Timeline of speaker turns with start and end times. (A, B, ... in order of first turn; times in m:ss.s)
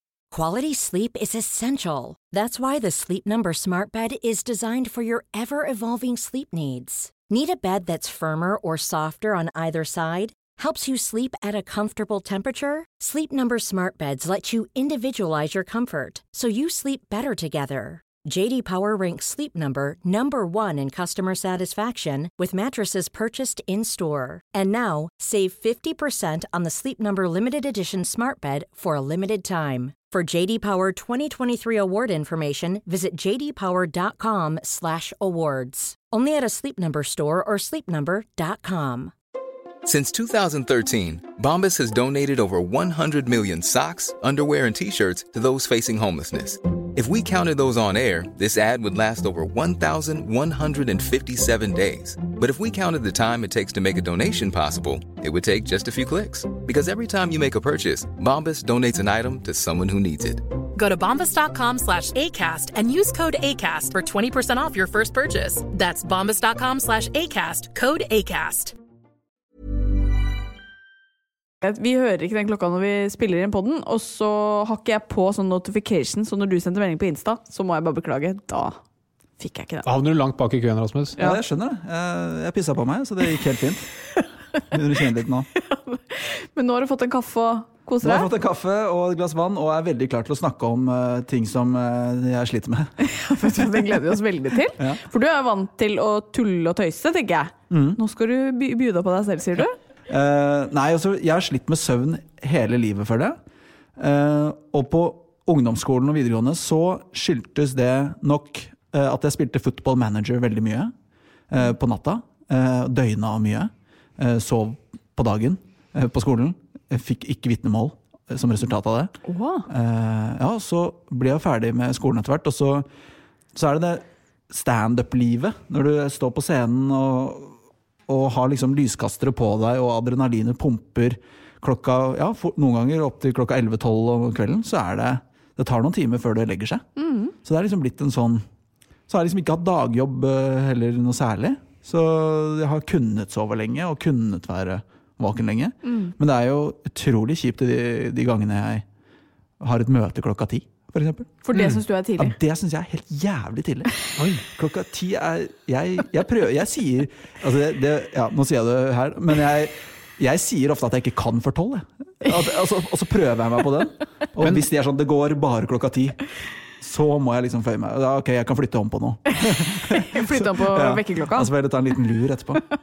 0:00.3-0:39.1 A
0:39.8-1:00.5 B
1:00.7-1:08.7 C
1:11.6-1:18.8 D
1:19.4-1:19.8 D
1:19.8-1:21.2 E
1:21.2-1:23.9 F
1:24.7-1:25.5 F
1:25.5-1:28.3 D
1:28.0-1:32.9 F
1:33.0-1:39.8 D
1:37.7-1:38.0 F
1:40.1-1:43.4 F
1:44.0-1:50.9 F
1:51.5-1:59.1 F
1:59.2-1:59.7 D
1:59.7-2:02.8 F
2:03.5-2:07.5 F
2:08.1-2:16.8 F
2:17.0-2:17.3 D
2:17.4-2:18.4 F
2:19.1-2:28.8 F
2:25.8-2:26.1 D
2:29.6-2:31.3 F
2:31.4-2:32.3 D
2:31.5-2:31.8 E
2:32.2-2:33.9 F
2:34.2-2:34.4 E
2:34.5-2:46.2 F
2:44.4-2:44.6 E
2:46.8-2:52.6 F
2:49.3-2:51.5 D